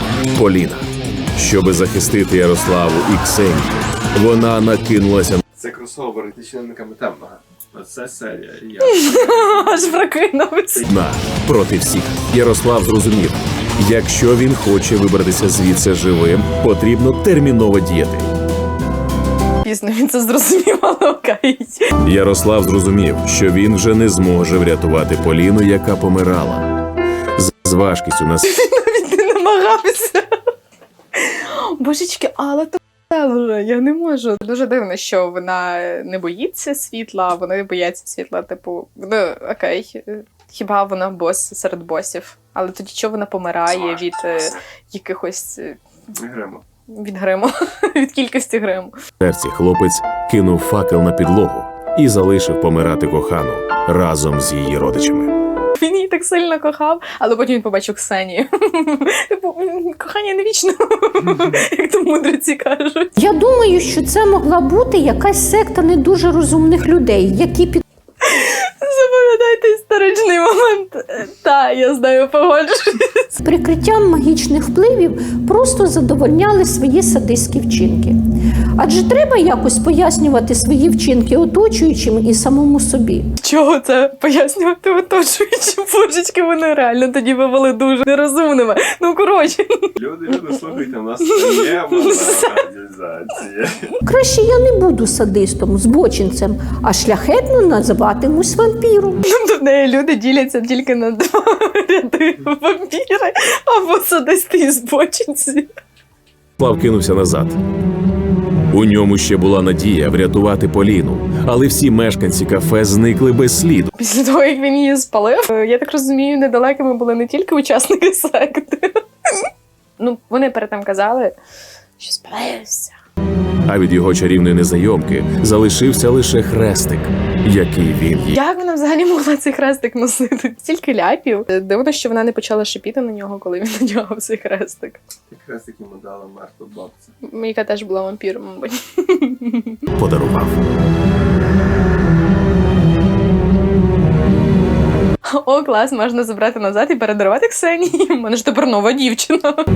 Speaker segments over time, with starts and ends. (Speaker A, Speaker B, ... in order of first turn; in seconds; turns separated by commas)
Speaker A: 0.3-5.4, Speaker B: 5.5-9.8, Speaker C: 8.8-10.9, Speaker A: 10.9-18.3, Speaker C: 19.6-21.9, Speaker A: 22.0-26.7, Speaker A: 27.4-28.5, Speaker C: 28.4-30.3, Speaker C: 31.2-45.8, Speaker B: 46.2-46.6, Speaker C: 46.9-49.0, Speaker A: 49.2-55.4, Speaker C: 55.8-63.1, Speaker D: 63.2-67.8, Speaker C: 68.2-73.3, Speaker D: 73.4-78.2, Speaker D: 78.8-83.3, Speaker C: 83.4-89.9, Speaker B: 90.0-94.0, Speaker C: 91.3-92.6, Speaker D: 94.1-99.2, Speaker C: 99.2-105.7, Speaker A: 106.6-107.6, Speaker A: 108.7-113.9, Speaker C: 114.0-119.5, Speaker C: 120.0-121.4, Speaker C: 122.0-122.9, Speaker A: 123.7-128.4, Speaker C: 128.3-135.0, Speaker B: 135.3-137.1, Speaker C: 137.2-139.8, Speaker A: 140.0-140.6, Speaker C: 145.2-149.7